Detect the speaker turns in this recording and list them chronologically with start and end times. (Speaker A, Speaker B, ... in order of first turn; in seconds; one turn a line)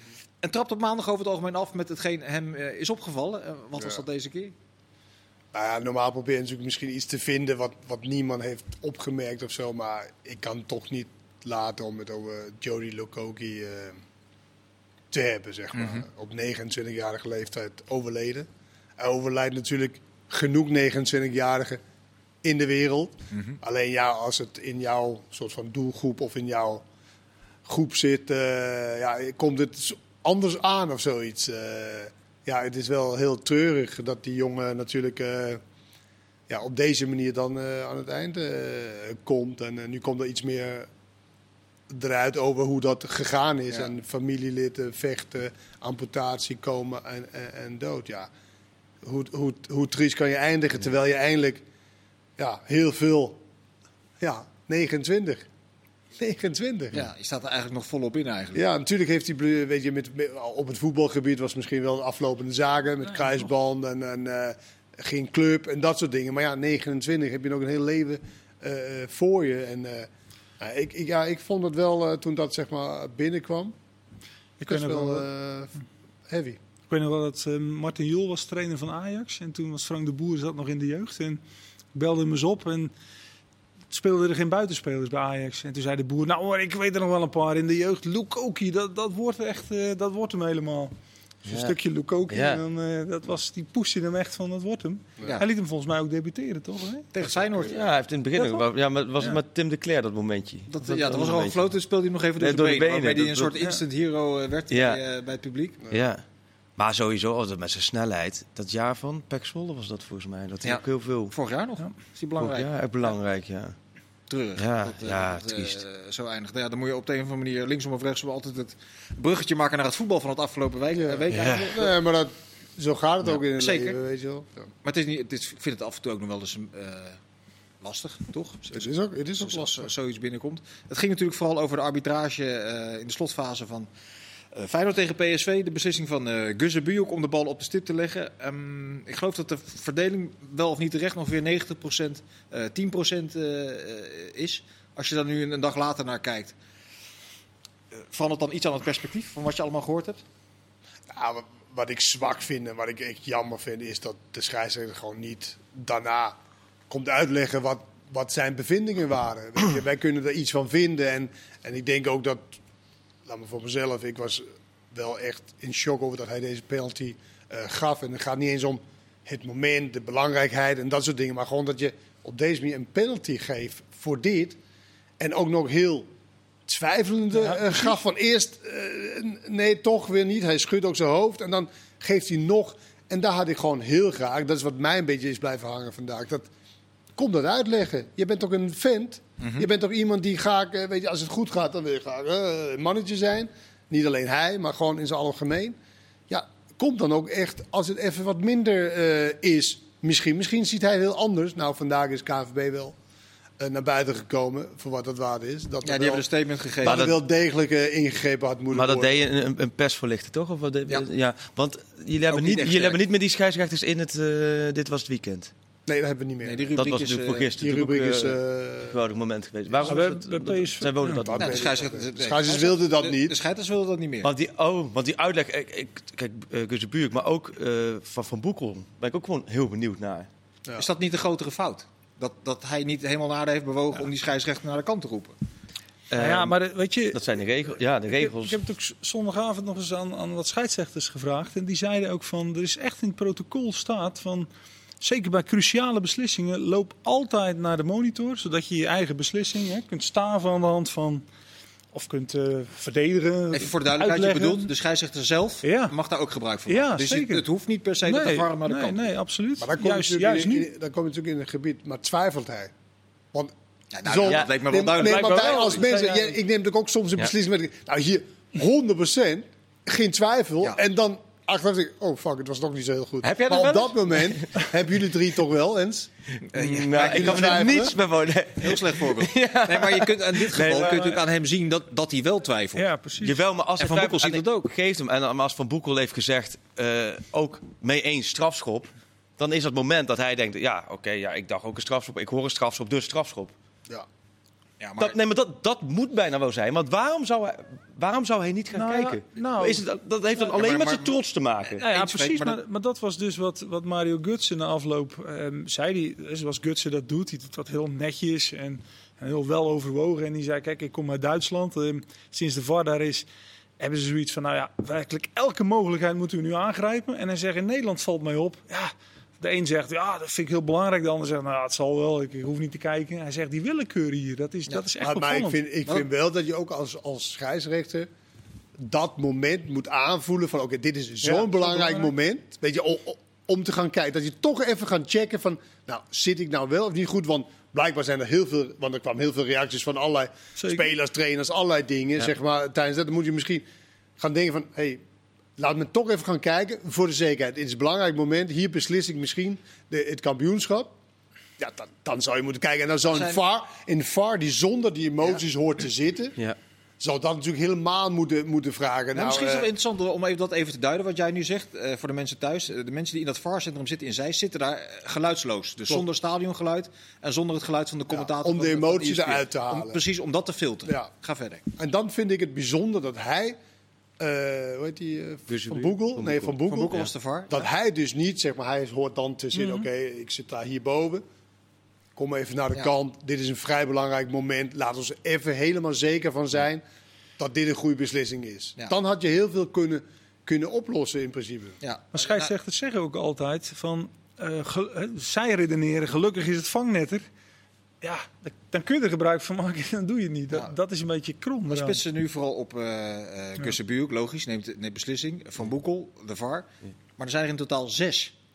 Speaker A: 0.4-4.5
Speaker B: 5.5-14.0
Speaker B: 15.1-18.5
Speaker A: 15.7-16.0
Speaker B: 19.0-21.8
Speaker B: 22.4-26.8
Speaker B: 27.6-35.6
Speaker B: 36.5-40.9
Speaker B: 41.9-48.3
Speaker B: 49.0-51.6
Speaker B: 52.4-53.4
Speaker B: 54.2-55.5
Speaker B: 56.2-57.0
Speaker A: 56.9-58.6
Speaker B: 58.5-70.1
Speaker B: 70.6-73.7
Speaker C: 74.6-75.3
Speaker B: 74.6-75.7
Speaker B: 76.3-76.6
Speaker C: 76.9-81.4
Speaker C: 81.9-82.9
Speaker C: 83.9-90.9
Speaker C: 91.4-97.1
Speaker D: 91.5-91.7
Speaker D: 92.3-92.6
Speaker A: 97.1-97.8
Speaker D: 97.7-101.7
Speaker C: 98.4-98.7
Speaker A: 100.7-105.8
Speaker D: 102.4-103.5
Speaker D: 104.7-105.0
Speaker D: 105.9-106.2
Speaker D: 106.8-111.3
Speaker A: 110.6-113.1
Speaker D: 112.4-113.7
Speaker A: 114.3-121.9
Speaker D: 114.6-115.8
Speaker B: 120.9-124.7
Speaker D: 121.3-121.7
Speaker A: 123.4-124.0
Speaker A: 124.8-127.2
Speaker A: 127.8-133.9
Speaker B: 128.7-129.9
Speaker A: 134.5-146.5
Speaker A: 148.1-150.2
Speaker B: 151.1-156.4
Speaker B: 156.9-162.6
Speaker B: 163.2-174.6
Speaker B: 175.2-176.1
Speaker B: 176.7-186.5
Speaker B: 187.2-195.8
Speaker A: 189.4-189.7
Speaker B: 196.3-202.9
Speaker B: 203.6-206.2
Speaker A: 205.8-207.2
Speaker B: 206.8-209.2
Speaker D: 206.8-207.1
Speaker D: 208.7-215.5
Speaker A: 212.3-213.0
Speaker B: 215.8-216.7
Speaker A: 216.4-217.5
Speaker D: 216.8-221.7
Speaker B: 217.6-219.0
Speaker C: 219.8-221.4
Speaker B: 221.2-223.4
Speaker A: 221.4-224.3
Speaker D: 224.2-230.3
Speaker A: 230.8-235.3
Speaker D: 236.1-236.5
Speaker C: 236.1-237.3
Speaker D: 237.1-238.6
Speaker C: 238.1-244.5
Speaker C: 245.0-251.2
Speaker C: 251.9-254.7
Speaker A: 253.5-259.1
Speaker C: 255.6-255.9
Speaker C: 256.7-257.4
Speaker C: 258.0-260.7
Speaker B: 259.6-262.7
Speaker A: 263.9-265.8
Speaker B: 264.0-276.1
Speaker D: 264.2-264.5
Speaker C: 265.0-266.3
Speaker D: 273.2-274.4
Speaker A: 276.5-277.9
Speaker D: 276.5-281.2
Speaker B: 276.9-277.9
Speaker A: 278.6-282.9
Speaker C: 282.8-283.4
Speaker D: 283.2-293.5
Speaker A: 283.8-284.7
Speaker A: 294.8-295.2
Speaker D: 295.0-301.8
Speaker C: 298.7-299.8
Speaker A: 300.4-302.6
Speaker C: 301.8-313.3
Speaker C: 313.8-325.6
Speaker B: 325.0-328.1
Speaker B: 328.8-343.6
Speaker C: 331.2-332.1
Speaker C: 340.6-340.9
Speaker B: 344.2-345.0
Speaker B: 345.6-350.9
Speaker B: 351.6-356.4
Speaker A: 353.1-353.4
Speaker B: 357.0-359.7
Speaker A: 359.1-371.6
Speaker B: 368.1-370.0
Speaker B: 371.8-373.6
Speaker B: 374.2-377.0
Speaker D: 375.5-377.1
Speaker A: 376.7-377.6
Speaker B: 377.5-381.2
Speaker C: 379.6-379.9
Speaker B: 382.1-386.8
Speaker B: 387.4-391.8
Speaker A: 391.8-392.5
Speaker C: 392.1-397.2
Speaker C: 398.0-402.0
Speaker A: 401.7-406.6
Speaker A: 407.2-408.3